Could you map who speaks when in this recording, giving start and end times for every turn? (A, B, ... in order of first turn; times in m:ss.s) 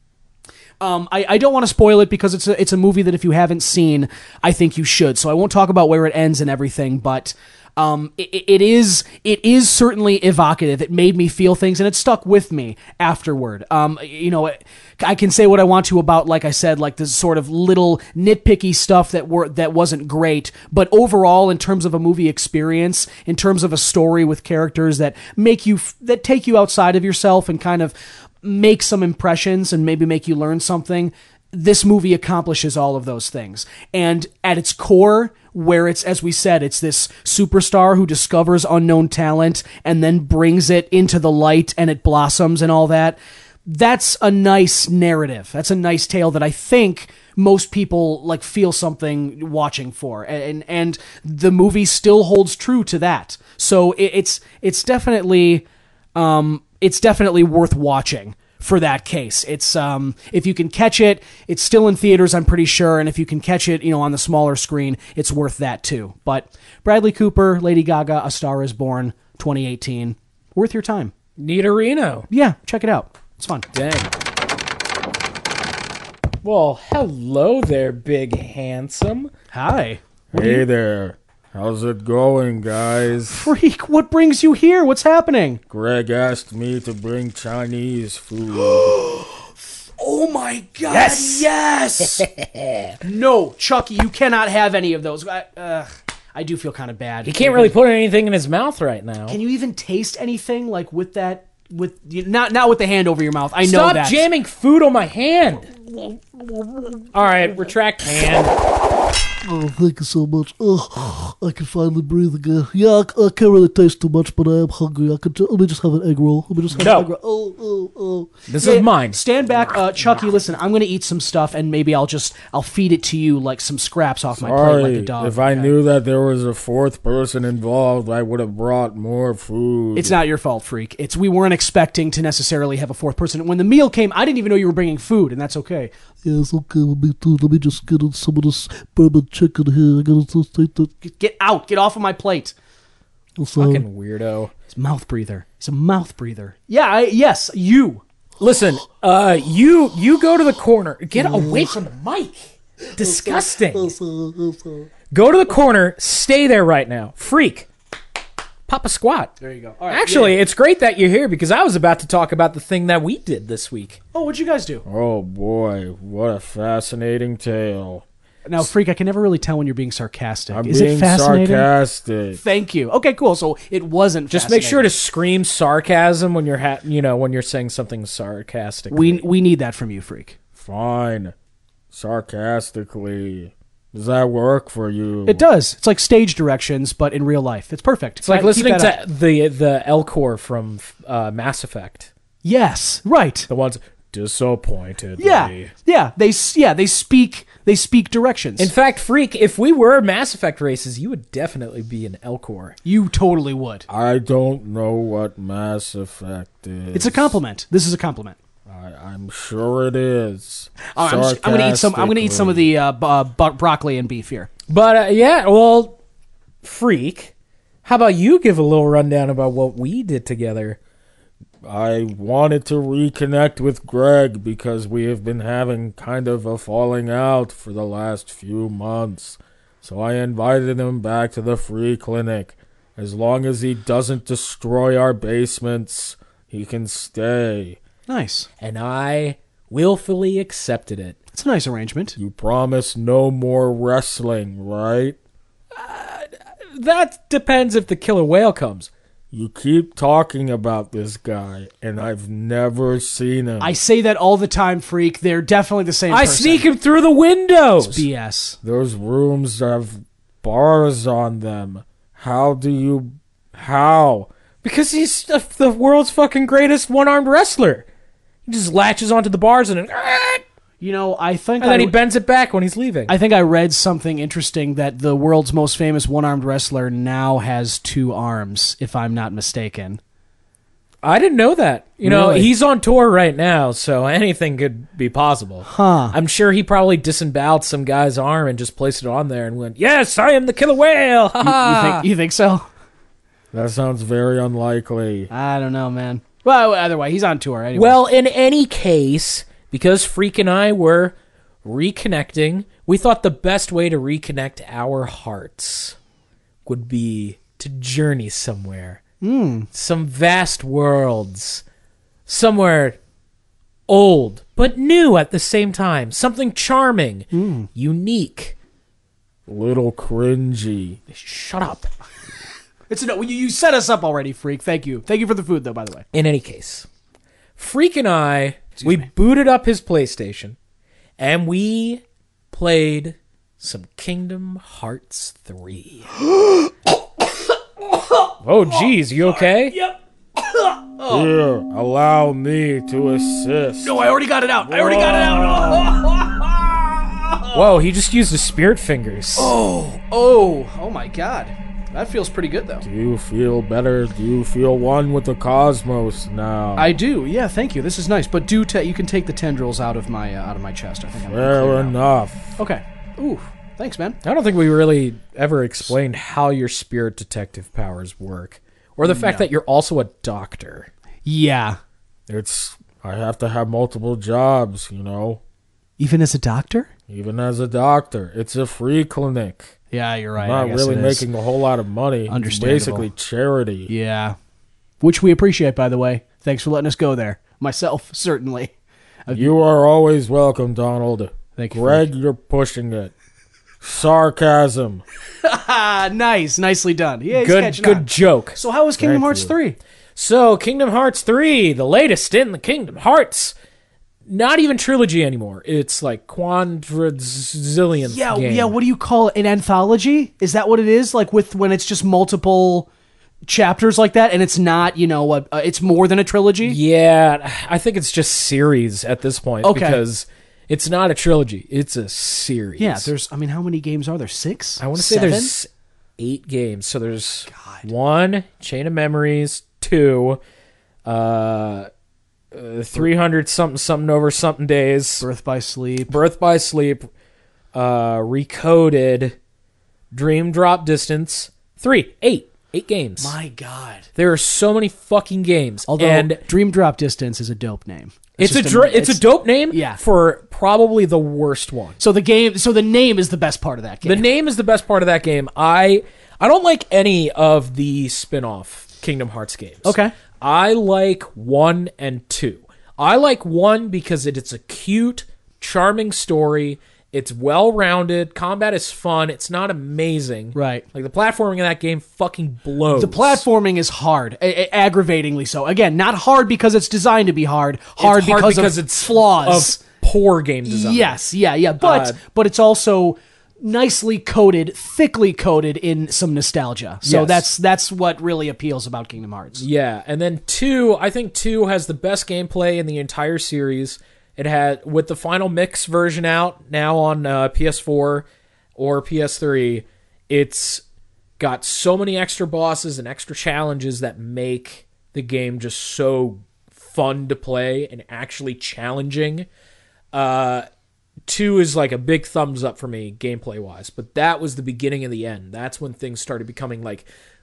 0:00.8-1:11.1 A
1:11.4-1:12.3 B
1:12.3-1:13.6 A
1:13.7-1:14.1 B
1:16.4-1:19.3 B
1:19.5-1:20.6 A
1:20.3-1:23.5 C
1:23.3-1:25.6 A
1:25.7-1:29.0 C
1:28.6-1:29.4 A
1:30.0-1:32.2 A
1:30.9-1:31.5 B
1:32.0-1:32.9 B
1:33.0-1:37.7 A
1:37.2-1:39.4 B
1:39.3-1:44.2 A
1:43.6-1:48.5 B
1:49.4-1:58.4 D
1:56.8-1:57.1 B
1:58.5-1:59.2 B
1:58.6-2:05.7 A
2:04.4-2:10.2 C
2:09.9-2:15.9 A
2:16.2-2:20.9 D
2:21.0-2:22.5 A
2:23.4-2:23.8 D
2:23.6-2:24.5 B
2:24.7-2:28.0 A
2:28.4-2:34.0 B
2:31.1-2:31.8 D
2:33.0-2:34.9 D
2:35.1-2:37.7 B
2:38.7-2:39.3 B
2:39.4-2:40.3 A
2:39.9-2:44.0 B
2:44.1-2:44.8 A
2:44.8-2:48.0 C
2:48.4-2:51.6 A
2:50.5-2:52.4 C
2:52.4-2:54.9 A
2:54.3-2:59.2 B
2:58.9-3:00.4 A
3:00.6-3:01.3 C
3:01.9-3:05.4 C
3:05.2-3:08.9 A
3:08.2-3:12.1 B
3:12.4-3:13.5 A
3:13.5-3:15.7 B
3:15.2-3:18.7 A
3:18.6-3:22.8 B
3:22.8-3:23.9 A
3:23.9-3:27.4 C
3:26.9-3:28.4 A
3:28.7-3:32.7 C
3:30.9-3:34.5 A
3:34.7-3:36.0 B
3:36.6-3:37.3 B
3:37.8-3:40.8 B
3:41.6-3:57.8 C
3:58.1-3:58.5 A
3:58.6-4:01.2 B
4:01.3-4:02.2 A
4:02.2-4:05.2 C
4:05.7-4:08.9 B
4:09.3-4:13.7 C
4:13.6-4:16.6 A
4:16.1-4:18.0 B
4:17.8-4:18.6 A
4:18.6-4:24.3 C
4:24.6-4:27.8 B
4:28.4-4:30.4 B
4:30.8-4:31.9 A
4:31.6-4:33.1 B
4:33.1-4:40.0 A
4:41.0-4:52.0 B
4:42.0-4:42.5 A
4:45.6-4:46.2 A
4:51.4-4:52.7 A
4:53.5-4:55.3 C
4:55.3-4:58.0 A
4:57.7-5:01.1 B
5:01.6-5:06.0 B
5:06.6-5:09.0 B
5:09.2-5:09.7 A
5:09.7-5:11.6 B
5:12.3-5:13.0 B
5:13.9-5:18.5 B
5:17.3-5:17.7 A
5:19.5-5:21.0 C
5:21.1-5:21.9 B
5:22.9-5:26.0 A
5:26.1-5:26.8 B
5:27.6-5:30.6 B
5:28.8-5:29.1 A
5:31.2-5:36.1 B
5:36.2-5:36.7 A
5:38.4-5:39.8 B
5:38.7-5:41.3 A
5:41.1-5:44.0 C
5:43.8-5:47.8 A
5:44.6-5:46.0 C
5:47.5-5:49.5 B
5:49.4-5:52.8 A
5:52.8-5:56.9 C
5:56.8-6:02.0 A
6:01.3-6:02.5 C
6:02.6-6:04.2 A
6:04.2-6:10.9 B
6:09.0-6:09.5 A
6:11.2-6:11.8 A
6:12.3-6:15.4 C
6:16.0-6:16.9 A
6:17.1-6:19.7 C
6:19.9-6:21.2 A
6:20.4-6:23.9 C
6:22.3-6:23.1 A
6:23.9-6:24.4 A
6:25.0-6:28.7 A
6:29.3-6:33.1 C
6:31.6-6:32.1 A
6:33.8-6:35.0 C
6:35.4-6:39.8 A
6:37.3-6:38.6 B
6:39.0-6:39.5 C
6:40.2-6:43.5 B
6:44.3-6:48.7 B
6:48.0-6:52.9 A
6:53.5-6:56.8 A
6:56.6-7:03.1 B
6:59.6-7:00.0 A
7:02.8-7:05.5 A
7:04.8-7:05.7 B
7:06.2-7:10.4 B
7:07.5-7:07.9 A
7:11.0-7:11.9 B
7:12.5-7:15.2 B
7:15.2-7:16.1 A
7:16.1-7:17.1 B
7:17.7-7:19.4 B
7:20.1-7:23.3 B
7:23.2-7:24.1 A
7:24.2-7:26.4 B
7:25.9-7:30.0 A
7:28.4-7:32.0 B
7:32.0-7:34.2 A
7:34.0-7:53.4 B
7:39.8-7:40.1 A
7:50.5-7:50.8 A
7:52.9-7:59.8 A
7:58.0-8:01.2 B
8:00.6-8:09.6 A
8:01.8-8:02.2 B
8:07.0-8:07.5 B
8:09.6-8:18.2 B
8:18.8-8:20.8 B
8:21.4-8:29.5 B
8:30.1-8:30.7 B
8:31.3-8:37.0 B